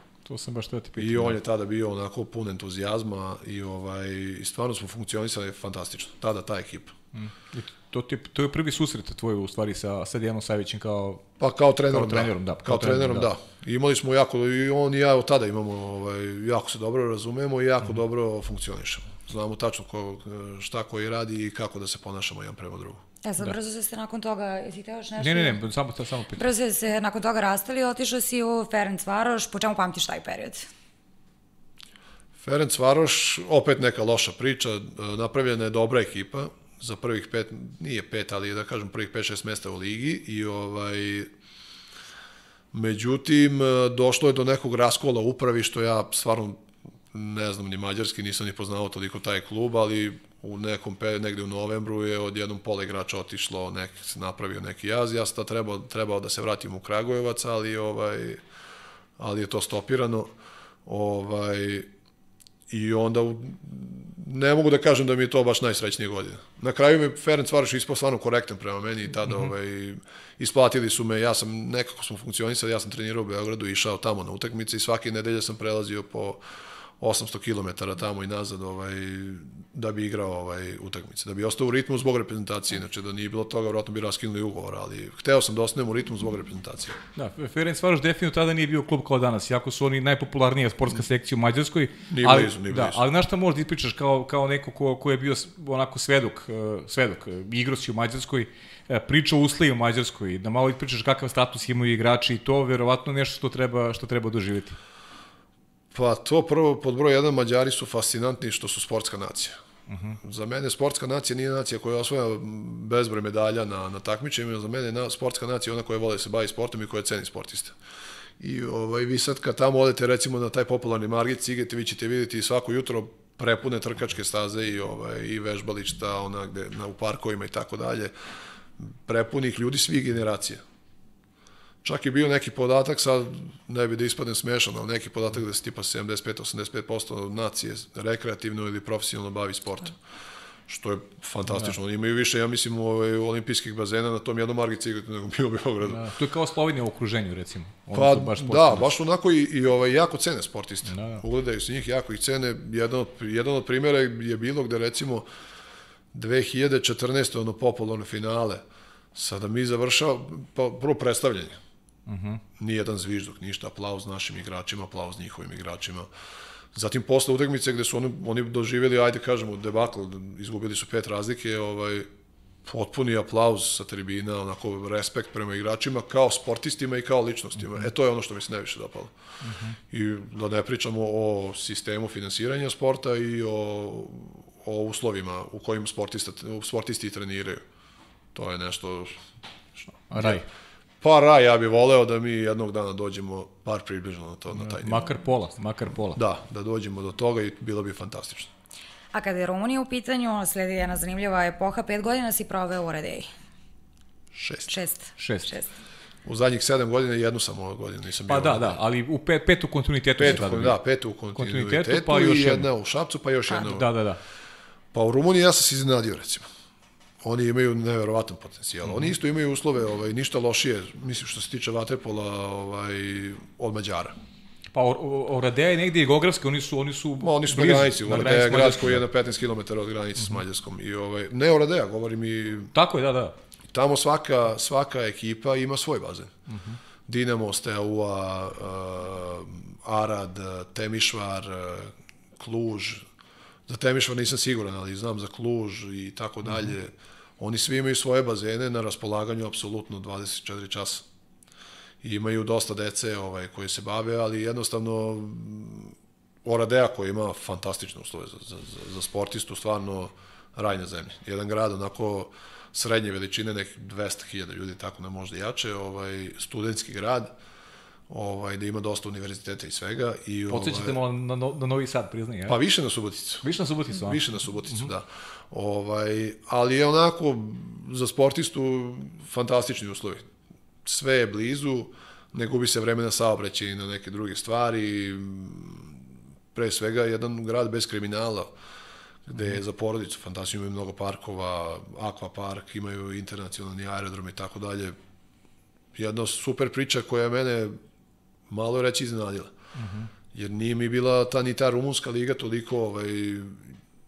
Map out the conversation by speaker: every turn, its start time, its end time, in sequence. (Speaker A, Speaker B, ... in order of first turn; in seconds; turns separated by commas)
Speaker A: 0.2-1.4, Speaker B: 1.0-7.0, Speaker A: 7.1-11.3, Speaker B: 11.4-23.0, Speaker A: 11.9-13.3, Speaker C: 23.2-25.6, Speaker A: 25.2-26.4, Speaker C: 26.4-30.7, Speaker B: 32.4-41.3, Speaker B: 42.7-46.6, Speaker B: 47.1-58.4, Speaker B: 59.2-60.3, Speaker B: 60.9-61.9, Speaker B: 62.7-76.4, Speaker B: 77.0-87.0, Speaker A: 87.2-104.8, Speaker B: 92.1-93.0, Speaker B: 105.9-109.6, Speaker A: 109.9-110.2, Speaker B: 110.2-117.8, Speaker B: 118.4-128.1, Speaker B: 128.8-130.6, Speaker B: 131.8-140.0, Speaker B: 140.7-146.1, Speaker A: 145.9-148.9, Speaker B: 147.9-155.3, Speaker A: 150.9-151.2, Speaker B: 156.1-161.6, Speaker A: 162.1-162.4, Speaker B: 162.6-166.1, Speaker B: 166.7-172.1, Speaker B: 172.7-179.1, Speaker A: 179.4-179.8, Speaker B: 179.9-187.6, Speaker B: 188.3-189.2, Speaker A: 190.1-190.4, Speaker B: 190.2-190.4, Speaker B: 191.0-195.1, Speaker A: 194.6-196.2, Speaker B: 196.2-198.5, Speaker C: 199.1-203.3, Speaker B: 204.3-204.7, Speaker C: 204.7-205.7, Speaker A: 205.2-205.5, Speaker B: 206.2-208.8, Speaker A: 208.3-210.8, Speaker B: 210.2-213.9, Speaker A: 211.3-212.7, Speaker A: 213.5-214.2, Speaker B: 214.9-216.5, Speaker B: 217.2-224.2, Speaker A: 218.8-219.1, Speaker A: 224.7-229.0, Speaker B: 227.2-232.7, Speaker A: 232.7-233.3, Speaker B: 233.7-236.3, Speaker A: 236.5-236.8, Speaker B: 237.1-243.0, Speaker B: 243.7-251.1, Speaker B: 252.0-267.3, Speaker B: 268.1-271.0, Speaker A: 270.5-272.6, Speaker B: 272.5-280.3, Speaker A: 273.4-274.9, Speaker B: 280.9-286.0, Speaker B: 286.5-288.5, Speaker B: 289.3-295.0, Speaker B: 295.9-297.8, Speaker B: 298.5-299.5, Speaker A: 299.8-300.1, Speaker B: 300.3-303.7